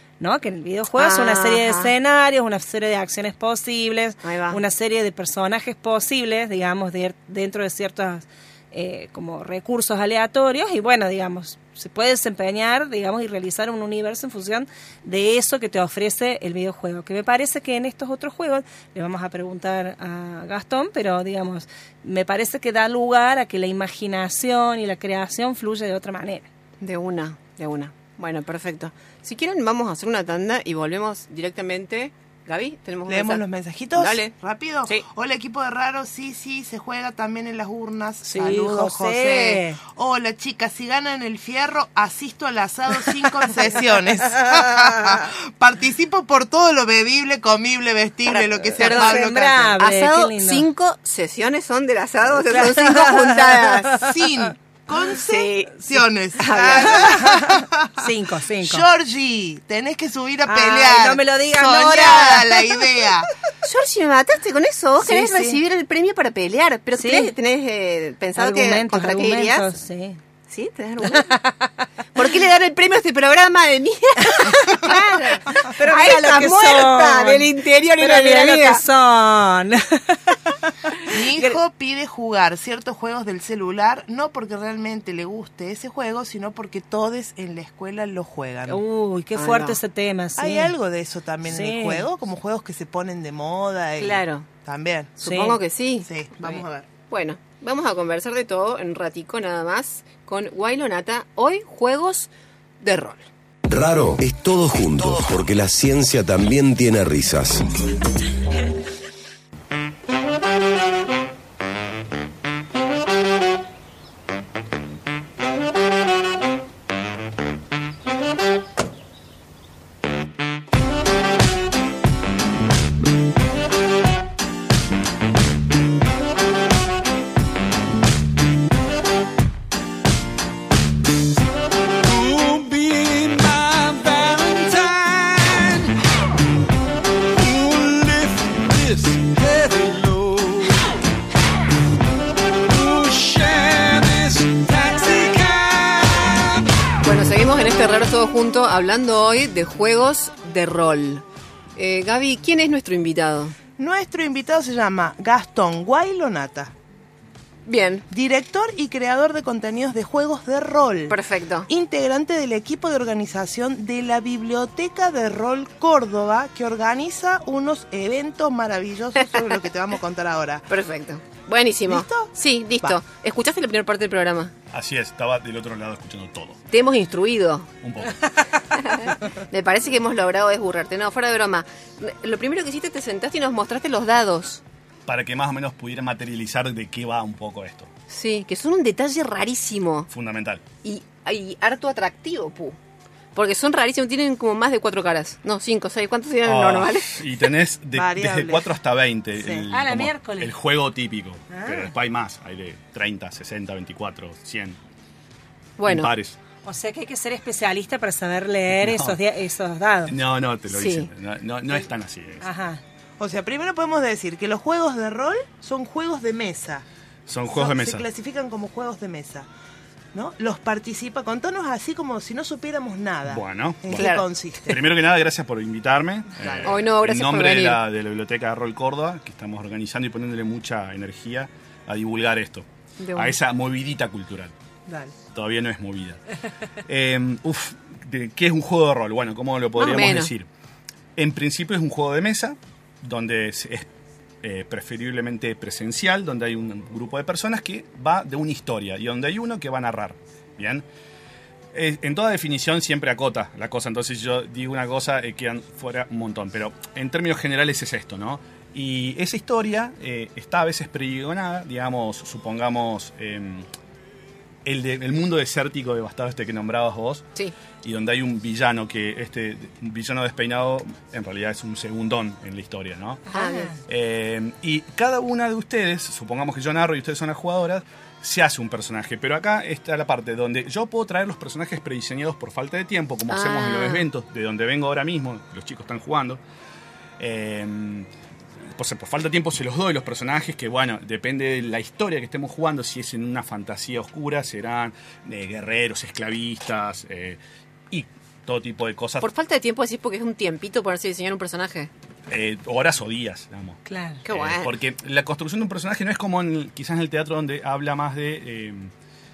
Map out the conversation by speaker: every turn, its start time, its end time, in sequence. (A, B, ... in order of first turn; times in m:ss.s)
0:00.2-0:26.4 A
0:01.0-0:01.9 B
0:04.2-0:04.6 B
0:26.8-0:33.4 B
0:33.1-0:49.8 C
0:33.9-0:34.3 B
0:38.2-0:39.8 A
0:44.4-0:45.2 A
0:48.3-0:49.2 B
0:48.8-0:50.6 A
0:49.8-0:54.0 B
0:52.4-0:54.1 A
0:54.0-0:58.1 C
0:55.2-0:55.8 B
0:56.4-0:57.3 B
0:56.9-0:58.9 A
0:58.6-1:03.3 C
1:00.4-1:02.8 A
1:03.6-1:09.7 B
1:05.0-1:05.6 C
1:07.0-1:07.3 A
1:08.4-1:10.2 A
1:10.5-1:11.3 B
1:11.1-1:11.7 A
1:12.1-1:18.8 B
1:14.8-1:21.6 A
1:21.1-1:28.8 C
1:28.7-1:30.7 A
1:29.3-1:29.8 B
1:30.4-1:35.1 C
1:31.4-1:32.0 A
1:34.0-1:34.5 B
1:35.2-1:42.3 B
1:35.2-1:35.6 A
1:36.0-1:36.9 C
1:42.8-1:43.2 B
1:43.7-1:47.7 D
2:11.8-2:15.9 E
2:17.3-2:20.8 E
2:22.5-2:27.0 E
2:27.0-2:31.2 B
2:31.8-2:33.5 B
2:33.8-2:36.7 C
2:37.6-2:38.0 B
2:38.1-2:50.7 C
2:41.1-2:41.7 B
2:50.7-2:54.5 B
2:51.9-2:53.0 C
2:54.7-2:56.6 F
2:56.7-2:57.7 B
2:57.8-2:58.3 F
2:58.7-3:04.6 B
3:05.1-3:07.9 F
3:08.1-3:10.1 B
3:10.1-3:10.6 F
3:10.8-3:12.8 B
3:13.3-3:17.4 B
3:16.4-3:24.8 F
3:17.9-3:18.8 C
3:19.4-3:19.7 C
3:19.7-3:20.5 A
3:21.5-3:21.9 A
3:25.8-3:26.1 B
3:25.8-3:26.4 F
3:26.6-3:30.1 A
3:28.8-3:29.2 F
3:30.1-3:32.4 F
3:30.7-3:31.1 B
3:32.4-3:32.8 A
3:33.2-3:36.8 C
3:37.3-3:38.0 F
3:37.5-3:39.5 C
3:40.1-3:44.8 C
3:43.3-3:54.5 F
3:43.9-3:44.2 B
3:46.4-3:46.7 C
3:46.6-3:47.8 B
3:53.0-3:53.4 B
3:54.9-3:55.1 C
3:55.3-3:56.2 F
3:56.8-4:00.5 F
3:59.8-4:00.3 B
4:01.2-4:03.9 F
4:04.4-4:10.8 F
4:11.7-4:23.7 F
4:24.6-4:27.3 F
4:27.8-4:33.3 F
4:33.3-4:33.8 A
4:33.3-4:33.7 B
4:33.8-4:46.4 F
4:43.3-4:44.0 B
4:47.2-4:48.1 F
4:48.8-4:57.4 F
4:57.9-4:59.2 F
4:59.2-5:01.9 B
5:02.3-5:08.9 F
5:03.8-5:04.2 A
5:04.2-5:04.7 B